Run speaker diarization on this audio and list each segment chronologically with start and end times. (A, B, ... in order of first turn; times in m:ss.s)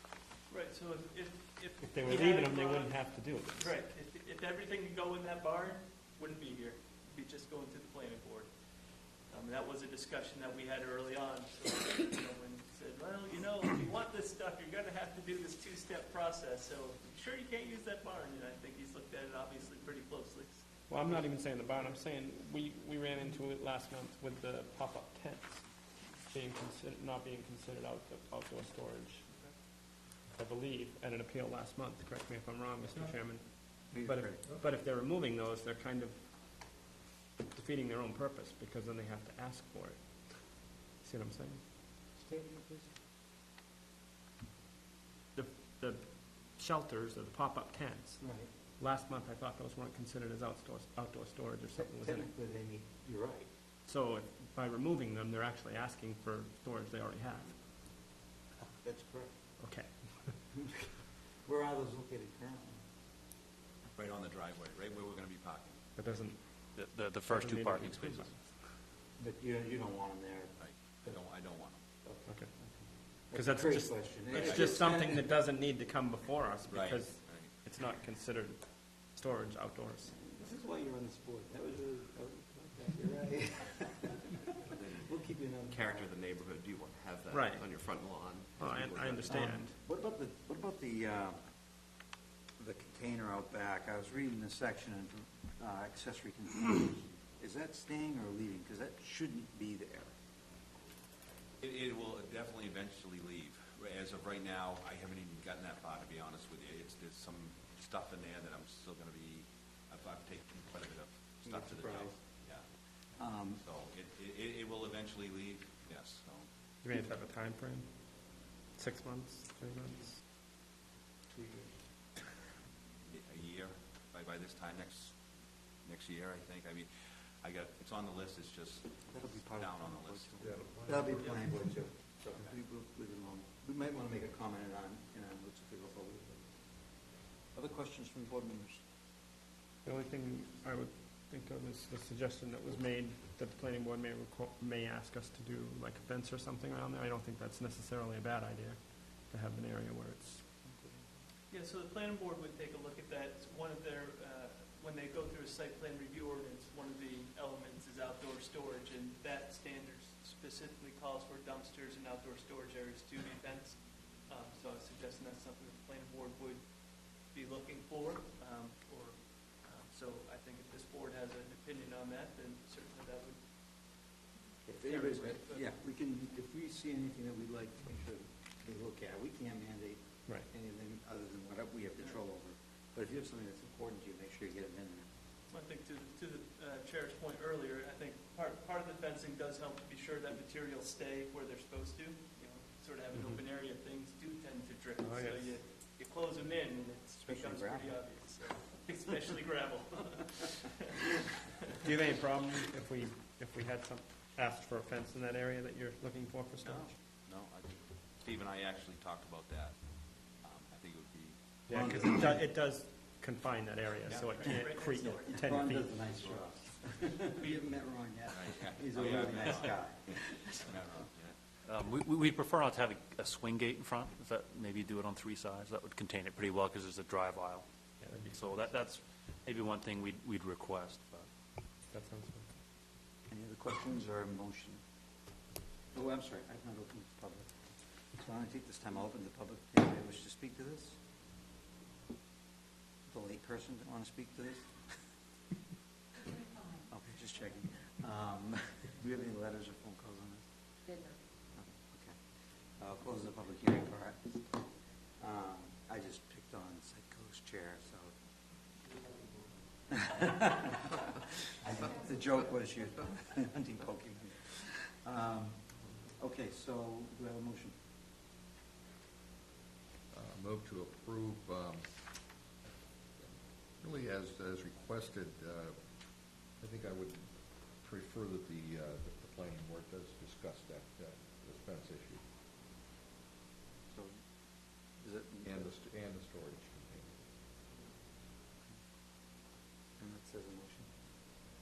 0:00.5-0:03.0 A
0:01.8-0:03.7 B
0:03.6-0:08.5 A
0:09.3-0:21.2 A
0:20.9-0:29.2 B
0:29.3-0:29.6 A
0:30.4-0:36.3 B
0:33.9-0:34.4 C
0:37.5-0:41.6 B
0:42.2-0:43.0 C
0:45.4-0:48.2 B
0:48.2-0:48.5 C
0:48.8-0:52.3 B
0:51.8-0:53.5 C
0:53.9-0:57.6 B
0:58.7-0:59.3 C
0:59.6-1:00.4 B
1:00.5-1:02.8 C
1:04.0-1:05.8 D
1:06.0-1:06.4 B
1:06.8-1:08.4 E
1:07.3-1:08.5 B
1:09.2-1:10.5 C
1:10.6-1:11.8 D
1:12.0-1:12.8 C
1:13.3-1:15.2 C
1:13.3-1:20.1 B
1:14.4-1:14.8 D
1:16.7-1:17.5 D
1:20.2-1:24.4 C
1:24.9-1:26.1 C
1:25.7-1:29.5 F
1:27.3-1:27.6 B
1:28.6-1:29.7 B
1:29.3-1:31.4 C
1:32.6-1:40.1 C
1:41.6-1:52.7 D
1:51.4-1:52.2 C
1:53.2-1:53.6 C
1:53.6-1:56.5 D
1:56.8-1:57.9 B
1:58.8-2:00.2 B
2:01.3-2:01.7 C
2:03.1-2:05.2 D
2:05.8-2:06.9 D
2:07.4-2:10.5 D
2:09.1-2:16.5 C
2:10.4-2:11.2 G
2:17.6-2:18.8 C
2:19.8-2:30.4 B
2:30.6-2:31.1 C
2:31.5-2:46.7 A
2:47.3-2:53.4 A
2:54.7-3:05.1 C
2:54.8-2:55.6 A
3:05.5-3:21.1 A
3:15.0-3:15.6 B
3:17.2-3:18.0 C
3:21.8-3:26.9 B
3:26.6-3:29.8 D
3:30.4-3:32.0 D
3:31.7-3:36.0 B
3:31.7-3:32.4 C
3:34.1-3:34.4 D
3:34.3-3:35.4 A
3:35.3-3:40.8 C
3:36.2-3:36.5 D
3:38.3-3:41.4 D
3:41.6-3:51.3 E
3:48.0-3:48.7 B
3:51.9-3:52.5 B
3:53.3-3:54.8 C
3:55.9-3:57.5 C
3:58.2-4:01.0 C
4:03.1-4:04.9 C
4:06.9-4:10.5 C
4:11.6-4:12.2 C
4:12.8-4:14.7 C
4:15.2-4:18.1 C
4:19.9-4:25.7 C
4:26.2-4:27.7 C
4:30.1-4:31.9 G
4:33.2-4:35.8 G
4:36.6-4:42.2 G
4:43.9-4:44.2 C
4:45.0-4:45.6 C
4:45.4-4:47.1 G
4:50.0-4:50.9 C